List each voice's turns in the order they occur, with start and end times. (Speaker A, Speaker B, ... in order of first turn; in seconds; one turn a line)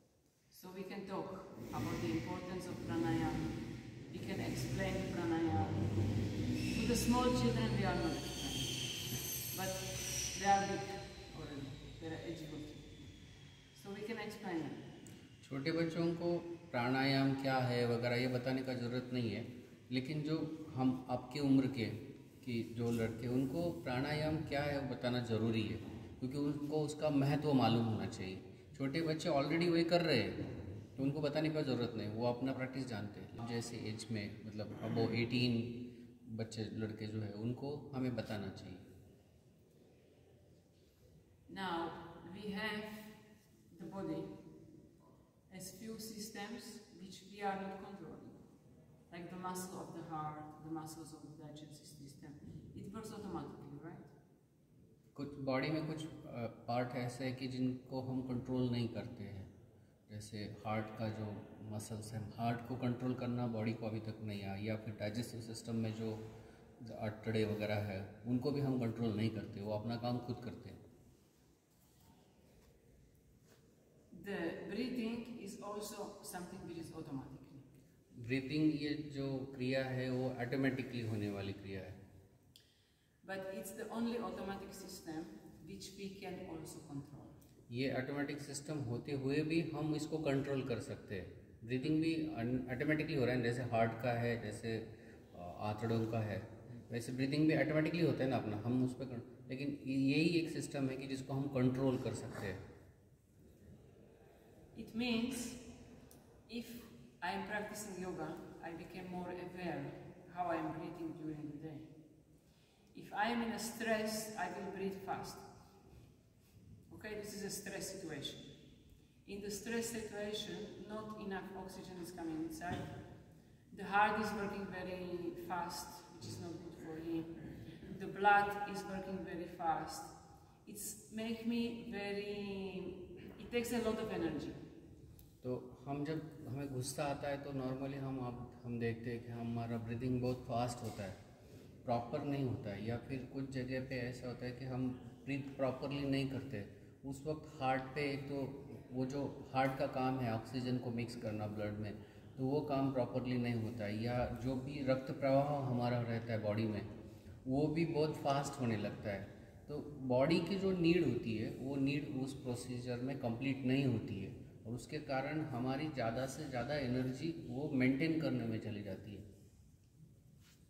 Speaker A: 0.5-13.0
Speaker A: 13.7-14.9
Speaker B: 15.4-38.9
Speaker A: 41.5-44.5
Speaker A: 45.5-48.4
Speaker A: 49.1-54.1
Speaker B: 55.1-59.5
Speaker B: 60.1-66.2
Speaker B: 66.8-70.8
Speaker A: 74.1-77.6
Speaker B: 78.1-82.0
Speaker A: 83.2-87.3
Speaker B: 87.7-102.6
Speaker A: 104.7-105.7
Speaker A: 106.5-111.9
Speaker A: 112.9-115.5
Speaker A: 116.9-118.5
Speaker A: 119.2-123.0
Speaker A: 123.7-130.1
Speaker A: 130.6-134.6
Speaker B: 135.4-141.2
Speaker B: 141.8-156.9
Speaker B: 157.4-169.2